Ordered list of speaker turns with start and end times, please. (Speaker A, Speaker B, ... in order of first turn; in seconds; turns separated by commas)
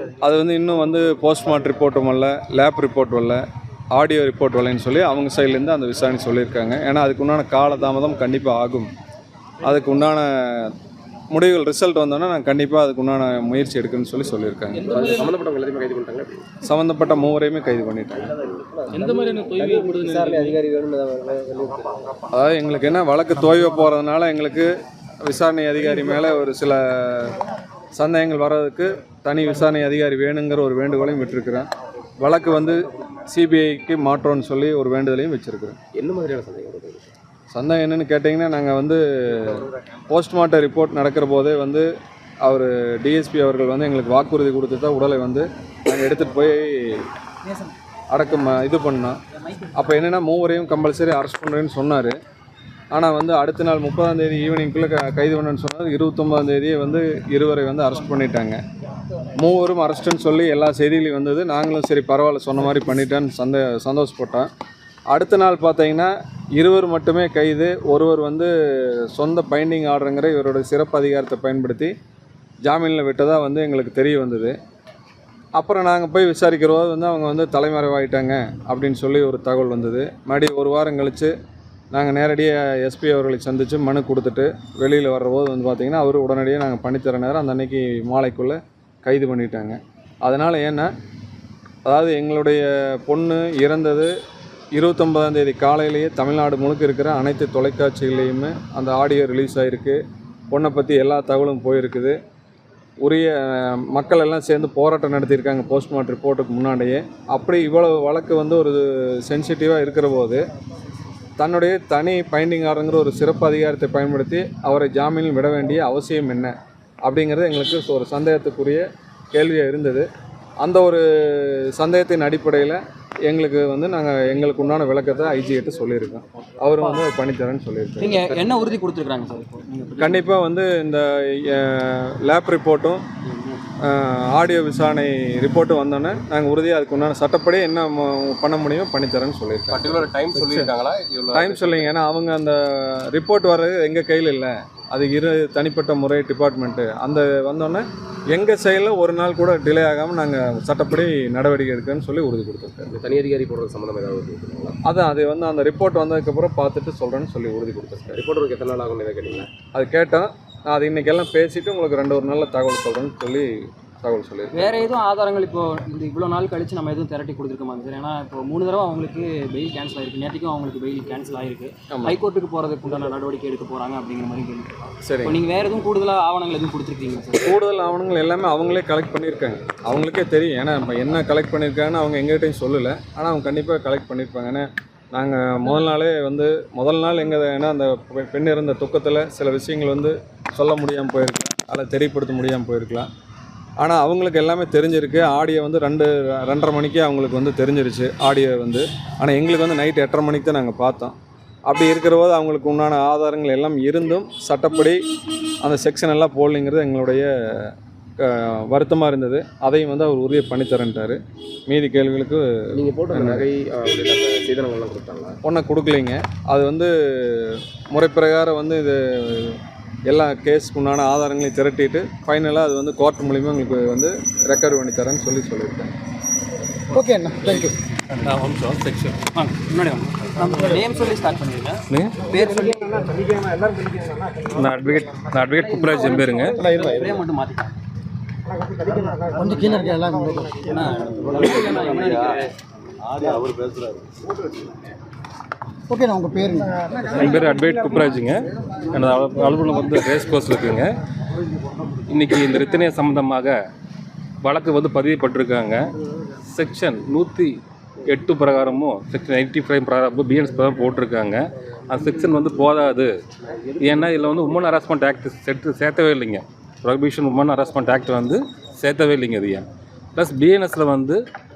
Speaker A: 0.2-3.4, Speaker A: 3.9-8.9, Speaker A: 9.6-10.7, Speaker A: 11.3-15.0, Speaker B: 14.9-16.5, Speaker C: 14.9-15.3, Speaker A: 16.6-18.3, Speaker B: 18.3-22.2, Speaker C: 18.9-20.6, Speaker A: 22.3-24.7, Speaker A: 25.2-27.4, Speaker A: 27.9-31.7, Speaker A: 32.2-35.8, Speaker B: 36.0-37.0, Speaker A: 37.5-41.9, Speaker A: 42.4-47.1, Speaker A: 48.1-49.2, Speaker A: 49.7-52.1, Speaker A: 52.9-58.6, Speaker A: 59.4-64.5, Speaker A: 65.1-71.9, Speaker A: 72.6-74.6, Speaker A: 75.6-81.3, Speaker A: 81.9-90.9, Speaker A: 91.8-94.1, Speaker A: 94.7-102.2, Speaker A: 103.0-110.4, Speaker A: 111.4-120.1, Speaker A: 120.6-128.3, Speaker D: 128.0-130.3, Speaker A: 130.0-133.0, Speaker D: 133.3-133.6, Speaker A: 133.8-139.9, Speaker B: 139.7-141.9, Speaker A: 141.3-152.9, Speaker B: 152.9-154.8, Speaker A: 154.9-158.2, Speaker B: 158.1-159.5, Speaker A: 159.7-164.7, Speaker D: 164.5-177.6, Speaker A: 171.9-172.2, Speaker A: 175.1-175.4, Speaker A: 177.4-193.1, Speaker A: 193.8-201.2, Speaker A: 201.7-205.1, Speaker A: 205.6-212.4, Speaker B: 212.7-215.4, Speaker A: 213.1-213.5, Speaker A: 215.4-225.9, Speaker E: 226.9-227.8, Speaker C: 228.2-229.5, Speaker D: 229.4-233.4, Speaker C: 231.9-232.3, Speaker C: 234.5-236.7, Speaker D: 235.9-237.7, Speaker E: 239.3-240.6, Speaker D: 240.6-242.5, Speaker B: 242.0-242.4, Speaker B: 243.1-244.0, Speaker E: 245.9-246.8, Speaker C: 247.1-250.9, Speaker C: 252.1-253.6, Speaker C: 254.4-255.8, Speaker C: 256.5-257.6, Speaker C: 258.1-263.1, Speaker C: 263.8-271.2